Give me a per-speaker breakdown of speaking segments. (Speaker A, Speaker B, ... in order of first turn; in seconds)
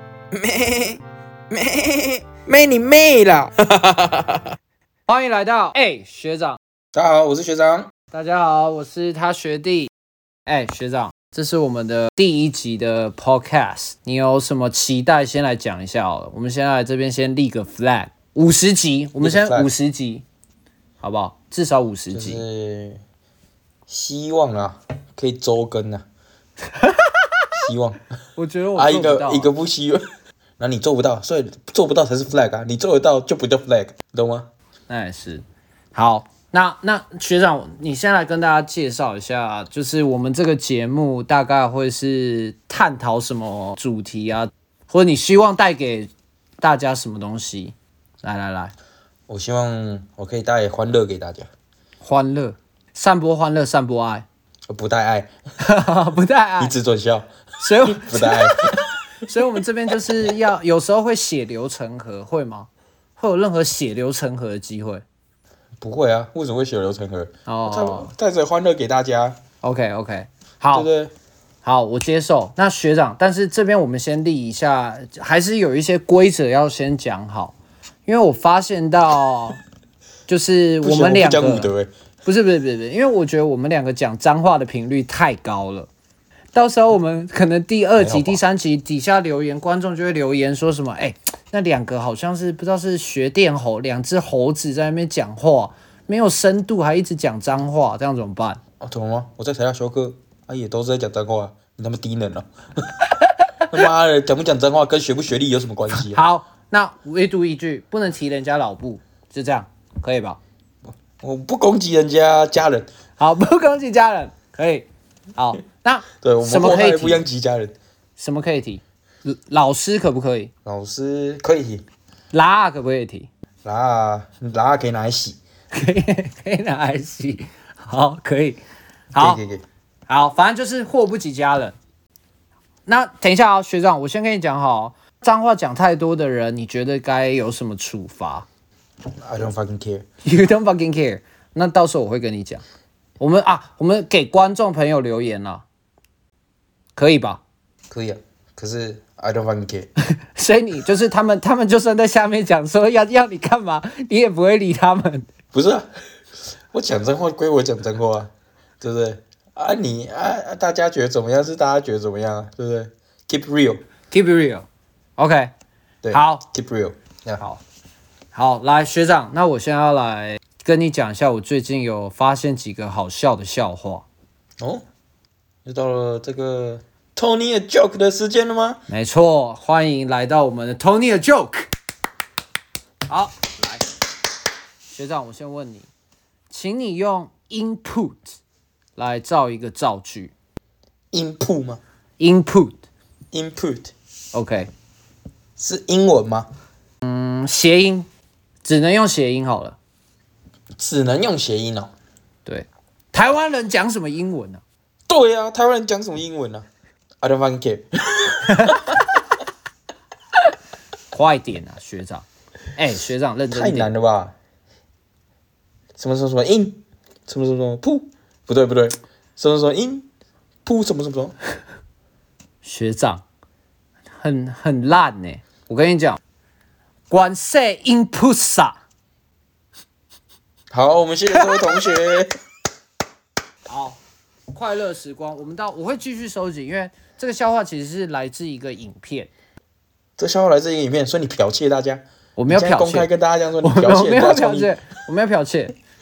Speaker A: 0.3-4.5, 6.9-7.9, 19.2-19.7, 22.1-23.0, 23.9-26.0, 27.5-28.0, 28.8-30.0, 30.6-34.5, 49.3-51.5, 54.7-55.3, 56.6-57.3, 57.8-58.8, 65.8-69.4, 70.7-71.1, 80.8-81.9, 88.0-88.4, 98.8-103.0, 103.7-106.2, 111.2-112.9, 116.2-117.7, 120.6-121.8, 123.6-125.4, 129.1-129.6, 139.2-140.0, 147.9-149.9, 155.5-155.9, 156.7-163.8, 166.0-167.4, 175.6-178.8, 191.1-191.8, 193.3-193.9, 195.6-196.5, 200.8-201.9, 205.1-206.7, 207.2-209.1, 213.5-214.3, 216.0-220.1, 220.6-221.3, 230.7-232.3, 240.2-244.7
Speaker B: 5.1-6.6, 8.1-9.9, 10.4-20.2, 21.0-22.4, 26.8-27.1, 28.4-29.5, 34.9-35.4, 35.9-48.7, 52.0-54.2, 55.6-56.7, 57.6-58.6, 59.2-65.0, 67.5-68.1, 69.6-70.9, 71.6-77.5, 78.0-79.6, 80.3-81.7, 82.2-85.9, 86.5-98.6, 105.9-110.4, 113.2-117.2, 118.2-120.5, 122.3-123.3, 125.7-128.6, 129.1-129.4, 130.1-131.8, 132.8-138.4, 140.2-142.6, 143.2-145.6, 146.9-147.4, 150.3-155.3, 164.1-164.7, 165.2-165.5, 166.1-166.4, 168.3-174.1, 178.9-181.7, 183.1-183.8, 184.9-185.9, 186.5-188.4, 188.9-190.3, 192.2-192.8, 194.3-194.7, 197.0-198.1, 198.6-199.8, 202.4-204.6, 208.4-208.8, 211.1-213.9, 222.6-223.2, 224.2-226.2, 227.1-228.8, 233.7-234.0, 234.5-239.3, 242.3-243.1, 243.6-245.7